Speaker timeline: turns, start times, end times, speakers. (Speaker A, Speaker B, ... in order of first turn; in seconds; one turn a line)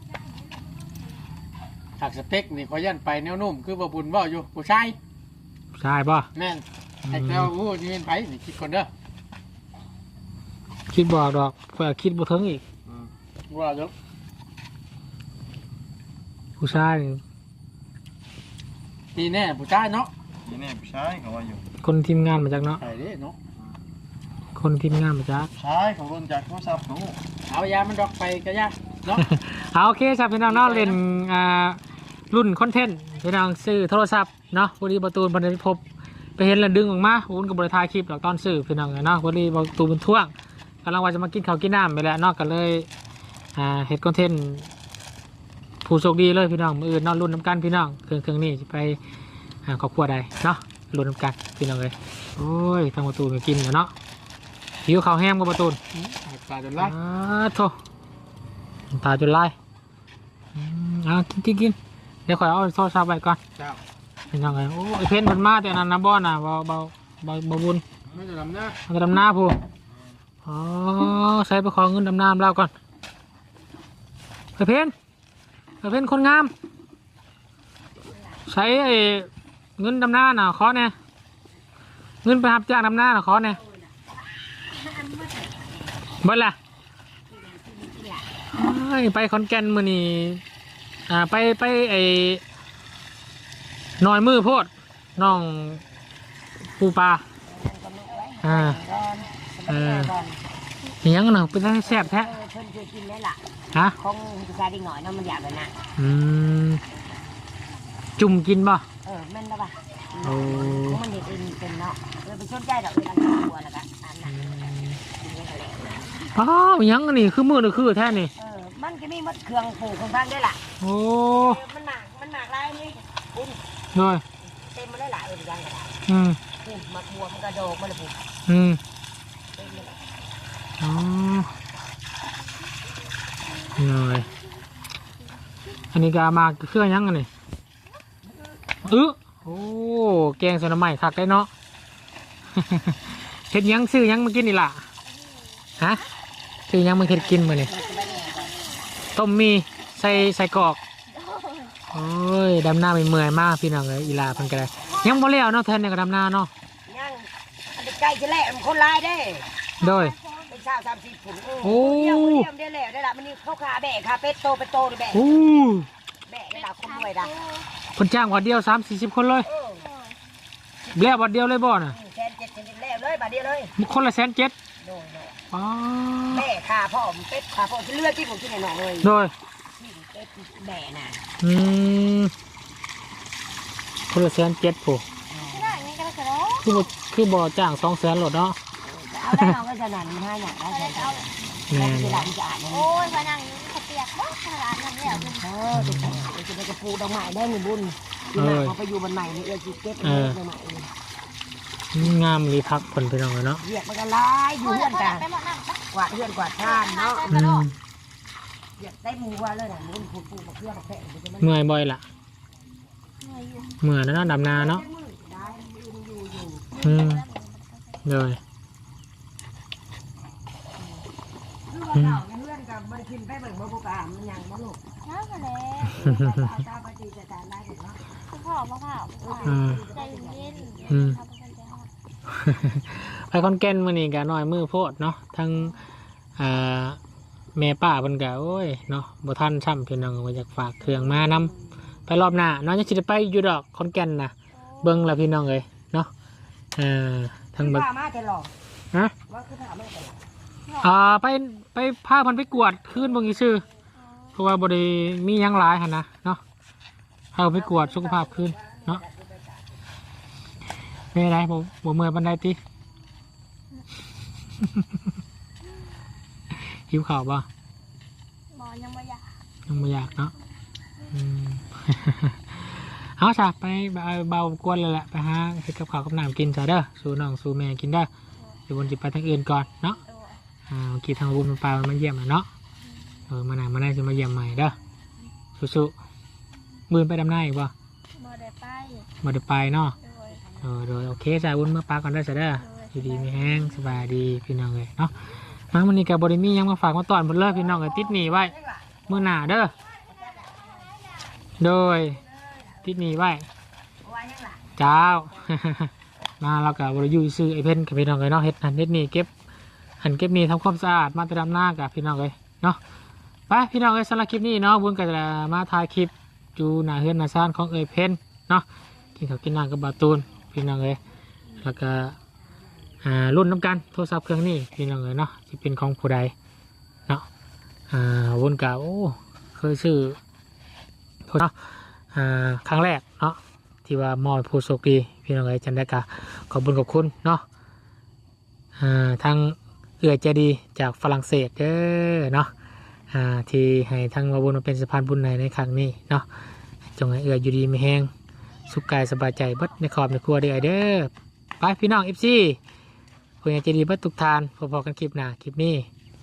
Speaker A: 2.0-5.0
Speaker B: 5.8-6.3
Speaker A: 6.3-8.9
Speaker B: 7.0-7.5
Speaker B: 10.9-12.6
Speaker C: 12.8-13.1
Speaker A: 13.5-13.9
Speaker B: 16.6-17.2
Speaker A: 19.1-20.1
Speaker C: 20.4-21.6
Speaker B: 21.8-22.8
Speaker A: 22.8-23.4
Speaker B: 24.6-25.5
Speaker C: 25.5-27.2
Speaker A: 27.5-29.2
Speaker B: 29.2-31.8
Speaker A: 30.5-31.0
Speaker B: 32.3-35.8
Speaker B: 36.4-40.3
Speaker B: 40.8-42.9
Speaker B: 43.5-44.7
Speaker B: 45.8-49.0
Speaker B: 49.6-53.9
Speaker B: 54.8-55.8
Speaker A: 55.9-57.0
Speaker B: 56.8-57.7
Speaker B: 58.9-59.5
Speaker B: 60.5-61.8
Speaker B: 62.3-63.4
Speaker A: 63.5-63.8
Speaker B: 64.3-67.8
Speaker A: 68.1-68.8
Speaker B: 68.9-69.6
Speaker B: 70.4-72.7
Speaker B: 74.6-74.9
Speaker B: 75.8-76.5
Speaker D: 78.1-78.4
Speaker B: 78.5-80.9
Speaker B: 82.2-83.6
Speaker D: 83.4-83.9
Speaker D: 84.7-86.0
Speaker B: 86.2-86.5
Speaker D: 87.3-88.3
Speaker B: 88.5-90.4
Speaker B: 91.1-92.4
Speaker B: 94.0-95.8
Speaker B: 96.7-97.2
Speaker D: 97.4-100.4
Speaker B: 98.4-98.8
Speaker B: 99.7-100.1
Speaker B: 101.0-102.4
Speaker D: 101.8-103.4
Speaker D: 103.9-105.8
Speaker B: 106.0-106.8
Speaker B: 108.2-108.8
Speaker D: 109.0-116.4
Speaker B: 110.2-111.0
Speaker B: 114.2-115.0
Speaker B: 116.3-118.3
Speaker D: 118.3-120.6
Speaker B: 120.8-121.6
Speaker D: 121.3-123.6
Speaker B: 123.9-124.2
Speaker D: 124.4-126.0
Speaker B: 126.1-126.4
Speaker D: 126.6-128.2
Speaker B: 128.5-128.8
Speaker D: 129.5-130.0
Speaker B: 130.8-131.5
Speaker B: 133.8-134.3
Speaker B: 135.9-137.3
Speaker B: 138.8-141.5
Speaker B: 142.5-144.8
Speaker E: 145.1-145.5
Speaker B: 146.7-147.7
Speaker D: 147.0-148.6
Speaker E: 147.7-148.9
Speaker B: 149.1-150.8
Speaker E: 151.1-151.8
Speaker B: 151.9-156.5
Speaker E: 154.8-155.2
Speaker D: 156.9-159.4
Speaker E: 159.8-160.6
Speaker B: 159.8-160.1
Speaker D: 160.5-165.4
Speaker B: 161.6-162.5
Speaker B: 165.1-165.9
Speaker D: 166.3-167.3
Speaker E: 166.5-167.7
Speaker B: 168.0-169.5
Speaker D: 169.4-169.8
Speaker E: 169.8-170.2
Speaker D: 170.8-171.2
Speaker B: 170.9-171.9
Speaker D: 171.9-173.7
Speaker B: 173.8-174.5
Speaker D: 174.8-175.4
Speaker B: 175.5-176.5
Speaker D: 176.3-179.1
Speaker B: 179.0-179.3
Speaker D: 179.8-181.2
Speaker B: 181.4-182.3
Speaker B: 184.1-185.0
Speaker D: 185.3-185.8
Speaker E: 185.4-186.8
Speaker B: 186.6-188.6
Speaker D: 188.8-192.9
Speaker E: 190.7-191.3
Speaker B: 191.7-192.3
Speaker E: 192.7-195.5
Speaker D: 195.1-200.9
Speaker B: 195.7-196.3
Speaker B: 198.4-198.7
Speaker B: 200.0-200.4
Speaker B: 201.9-203.6
Speaker D: 203.6-205.3
Speaker E: 204.6-205.8
Speaker D: 205.9-207.4
Speaker E: 206.6-207.7
Speaker B: 207.2-207.8
Speaker D: 208.8-211.6
Speaker B: 211.4-212.0
Speaker E: 213.2-213.8
Speaker B: 213.8-214.8
Speaker D: 214.3-217.0
Speaker E: 216.7-218.0
Speaker B: 216.8-217.2
Speaker B: 218.0-218.4
Speaker D: 220.8-221.0
Speaker D: 221.7-224.8
Speaker B: 221.9-222.2
Speaker E: 225.0-226.0
Speaker D: 225.9-228.0
Speaker B: 226.1-226.4
Speaker E: 228.3-231.9
Speaker D: 229.2-231.1
Speaker B: 229.4-229.8
Speaker B: 230.9-231.2
Speaker B: 232.3-235.7
Speaker B: 236.4-237.0
Speaker B: 237.5-241.5
Speaker D: 240.8-241.5
Speaker B: 242.1-246.1
Speaker E: 244.5-245.2
Speaker B: 246.8-247.8
Speaker D: 247.6-248.5
Speaker D: 249.3-250.2
Speaker E: 250.7-251.0
Speaker B: 250.8-253.6
Speaker E: 253.9-254.4
Speaker B: 254.3-256.4
Speaker B: 257.3-259.0
Speaker D: 257.5-259.8
Speaker B: 261.1-262.6
Speaker B: 264.6-265.0
Speaker B: 266.5-267.5
Speaker E: 268.5-270.3
Speaker B: 269.7-270.3
Speaker B: 271.1-272.4
Speaker B: 273.2-278.1
Speaker B: 278.7-280.0
Speaker E: 280.0-280.4
Speaker B: 280.7-282.5
Speaker E: 282.8-283.2
Speaker B: 283.3-284.7
Speaker B: 285.6-285.9
Speaker B: 286.9-287.7
Speaker E: 288.2-289.1
Speaker B: 289.2-289.9
Speaker E: 289.9-290.4
Speaker D: 290.3-290.7
Speaker B: 290.6-295.1
Speaker E: 292.6-294.1
Speaker B: 295.7-298.5
Speaker D: 297.5-299.5
Speaker B: 299.1-299.7
Speaker D: 300.0-301.0
Speaker B: 301.6-302.2
Speaker D: 302.2-302.9
Speaker B: 302.8-303.5
Speaker D: 304.0-304.8
Speaker B: 304.8-309.3
Speaker B: 310.0-312.8
Speaker B: 313.5-318.6
Speaker B: 319.1-321.0
Speaker B: 321.6-322.2
Speaker B: 323.0-326.3
Speaker B: 327.9-330.2
Speaker B: 332.1-337.4
Speaker B: 338.8-342.5
Speaker B: 343.1-346.2
Speaker B: 347.0-348.1
Speaker B: 348.7-352.6
Speaker B: 353.4-355.9